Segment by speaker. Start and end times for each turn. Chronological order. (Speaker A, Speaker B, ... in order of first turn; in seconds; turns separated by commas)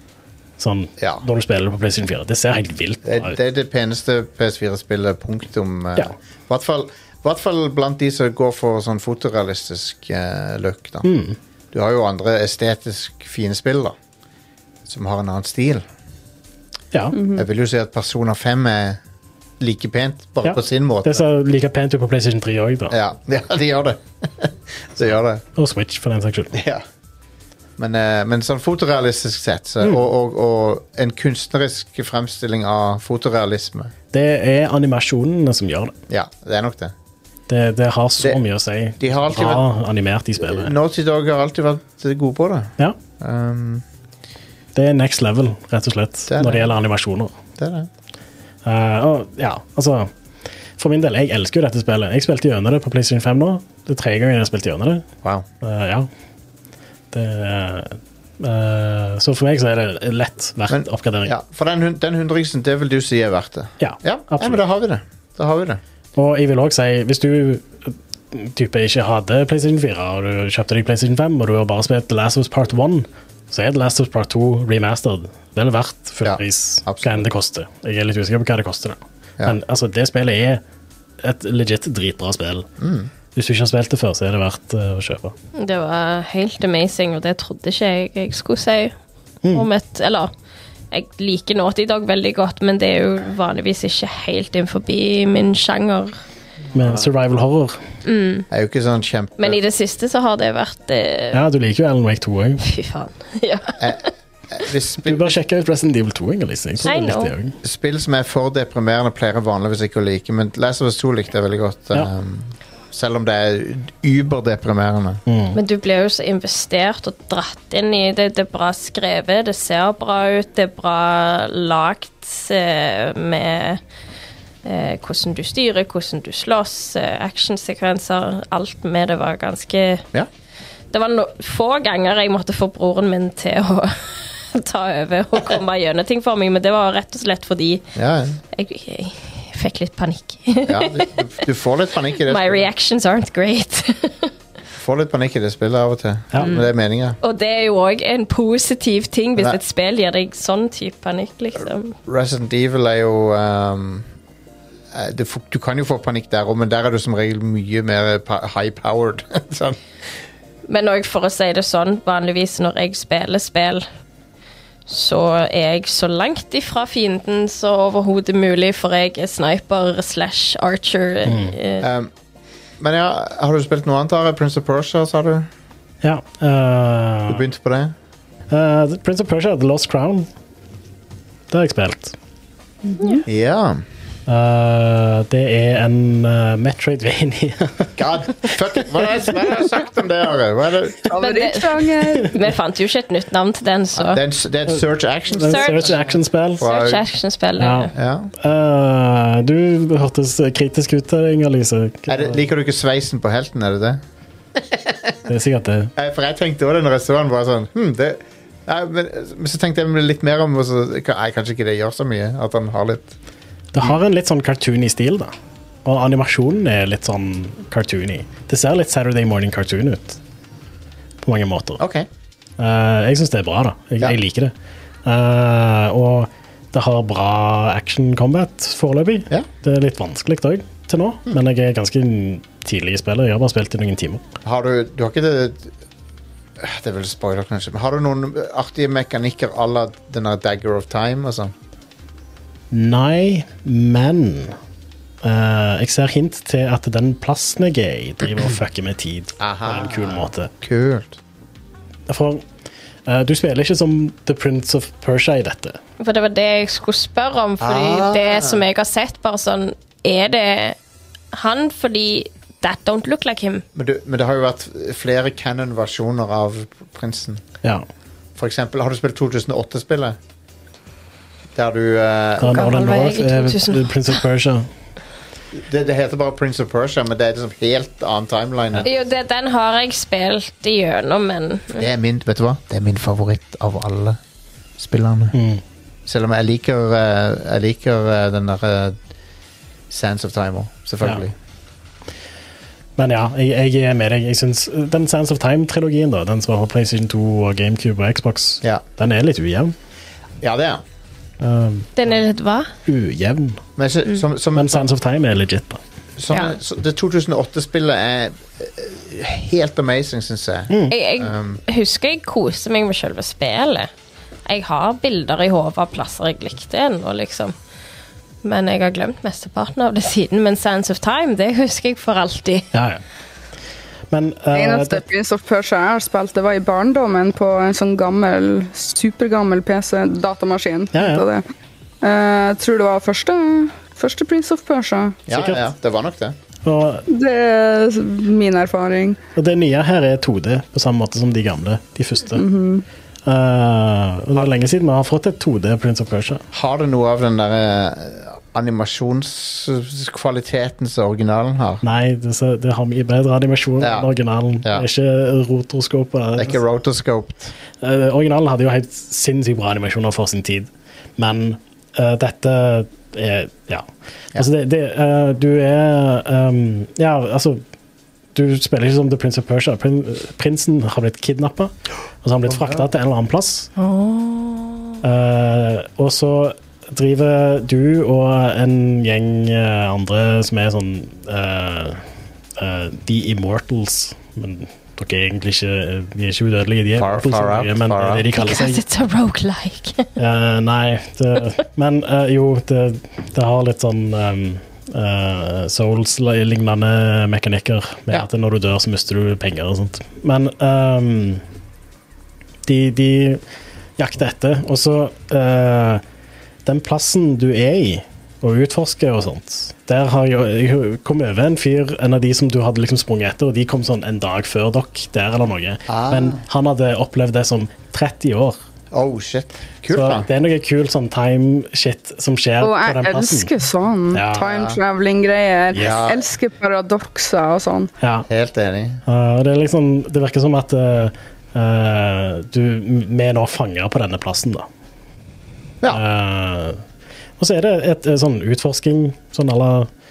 Speaker A: 0.6-3.4, Speaker B: 1.0-1.2, Speaker B: 3.0-11.1, Speaker A: 11.0-11.4, Speaker B: 11.7-13.9, Speaker B: 14.9-15.8, Speaker C: 17.1-17.4, Speaker B: 17.3-19.0, Speaker B: 19.6-21.2, Speaker A: 20.4-22.9, Speaker B: 22.9-25.4, Speaker A: 25.6-26.6, Speaker B: 26.5-26.8, Speaker B: 27.8-33.9, Speaker A: 34.1-36.0, Speaker B: 36.1-36.9, Speaker A: 37.5-40.7, Speaker B: 39.0-39.7, Speaker B: 40.4-43.8, Speaker A: 44.8-47.4, Speaker B: 46.3-46.7, Speaker B: 47.6-47.9, Speaker A: 48.6-50.1, Speaker A: 50.8-55.1, Speaker A: 55.6-56.1, Speaker A: 57.1-61.3, Speaker B: 60.7-65.8, Speaker A: 63.8-64.6, Speaker A: 66.2-80.6, Speaker B: 76.2-77.3, Speaker A: 81.2-82.7, Speaker B: 82.8-83.1, Speaker A: 83.3-85.3, Speaker D: 85.6-88.9, Speaker D: 89.5-90.3, Speaker D: 90.9-96.2, Speaker A: 96.7-97.8, Speaker B: 96.8-97.1, Speaker D: 98.0-98.5, Speaker B: 98.5-99.6, Speaker D: 99.4-101.4, Speaker A: 101.3-102.6, Speaker D: 102.6-104.0, Speaker B: 103.8-105.4, Speaker A: 105.0-107.6, Speaker D: 106.8-107.3, Speaker B: 107.6-115.2, Speaker A: 115.3-115.6, Speaker D: 115.5-123.8, Speaker D: 124.7-130.1, Speaker D: 130.9-137.8, Speaker B: 137.9-138.4, Speaker D: 138.5-141.4, Speaker B: 140.7-142.7, Speaker D: 142.2-144.3, Speaker B: 144.7-147.2, Speaker D: 146.4-146.7, Speaker D: 147.2-151.9, Speaker B: 152.1-154.1, Speaker B: 154.9-159.8, Speaker D: 160.7-163.8, Speaker D: 164.9-171.9, Speaker A: 171.3-171.5, Speaker B: 171.8-172.1, Speaker B: 172.8-175.5, Speaker A: 176.0-177.4, Speaker B: 177.3-177.9, Speaker A: 178.5-180.3, Speaker A: 181.5-182.2, Speaker C: 182.8-183.2, Speaker B: 183.3-183.8, Speaker A: 184.3-189.0, Speaker B: 188.0-191.0, Speaker C: 191.1-192.3, Speaker D: 191.2-194.2, Speaker B: 193.9-197.0, Speaker A: 195.3-196.7, Speaker D: 195.4-196.0, Speaker D: 196.6-197.9, Speaker A: 197.6-202.4, Speaker B: 197.9-198.3, Speaker B: 202.1-204.0, Speaker B: 204.6-205.2, Speaker A: 205.3-205.9, Speaker B: 206.0-213.1, Speaker A: 213.7-215.3, Speaker A: 215.8-220.2, Speaker A: 221.2-221.8, Speaker B: 221.8-222.1, Speaker A: 222.6-224.5, Speaker A: 225.1-234.2, Speaker B: 234.4-235.7, Speaker B: 236.6-241.5, Speaker A: 242.7-244.6, Speaker A: 245.2-250.5, Speaker B: 249.4-251.2, Speaker A: 252.1-252.4, Speaker A: 253.1-255.8, Speaker D: 256.0-260.8, Speaker B: 257.6-258.6, Speaker D: 261.3-263.6, Speaker B: 263.8-267.4, Speaker B: 268.4-270.2, Speaker B: 271.6-272.7, Speaker A: 272.4-274.7, Speaker D: 272.4-274.2, Speaker B: 275.5-278.9, Speaker D: 278.8-281.9, Speaker B: 281.8-284.2, Speaker B: 284.8-285.4, Speaker A: 285.3-285.6, Speaker B: 286.1-289.0, Speaker B: 289.9-291.3, Speaker A: 293.0-299.8, Speaker B: 300.4-300.8, Speaker A: 301.4-301.9, Speaker D: 302.0-302.7, Speaker A: 302.9-303.6, Speaker B: 303.8-304.9, Speaker A: 304.6-305.8, Speaker B: 306.2-311.6, Speaker A: 310.7-310.9, Speaker D: 310.9-313.9, Speaker D: 314.5-317.5, Speaker D: 318.4-322.7, Speaker A: 322.7-323.0, Speaker A: 324.1-325.0, Speaker C: 324.5-331.4, Speaker A: 330.9-331.2, Speaker C: 332.0-335.2, Speaker B: 335.3-336.4, Speaker A: 335.3-335.7, Speaker A: 336.6-337.0, Speaker C: 337.1-339.2, Speaker A: 339.4-342.4, Speaker C: 342.4-342.9, Speaker A: 343.2-346.4, Speaker B: 346.5-351.8, Speaker A: 351.8-356.6, Speaker B: 353.8-354.1, Speaker B: 356.4-357.5, Speaker A: 357.8-367.6, Speaker A: 368.4-373.7, Speaker B: 372.5-372.9, Speaker D: 373.8-375.0, Speaker A: 375.0-382.1, Speaker A: 382.6-388.8, Speaker B: 387.0-388.2, Speaker D: 388.3-390.1, Speaker A: 390.2-401.4, Speaker A: 402.7-403.4, Speaker A: 404.0-406.0, Speaker A: 406.6-418.6, Speaker B: 415.9-416.4, Speaker B: 418.9-420.3, Speaker A: 419.9-423.5, Speaker C: 422.6-427.9, Speaker A: 424.1-424.5, Speaker B: 424.4-424.8, Speaker B: 425.8-426.3, Speaker A: 428.0-428.3, Speaker B: 428.3-429.0, Speaker A: 429.1-434.7, Speaker A: 435.9-436.8, Speaker A: 437.4-439.9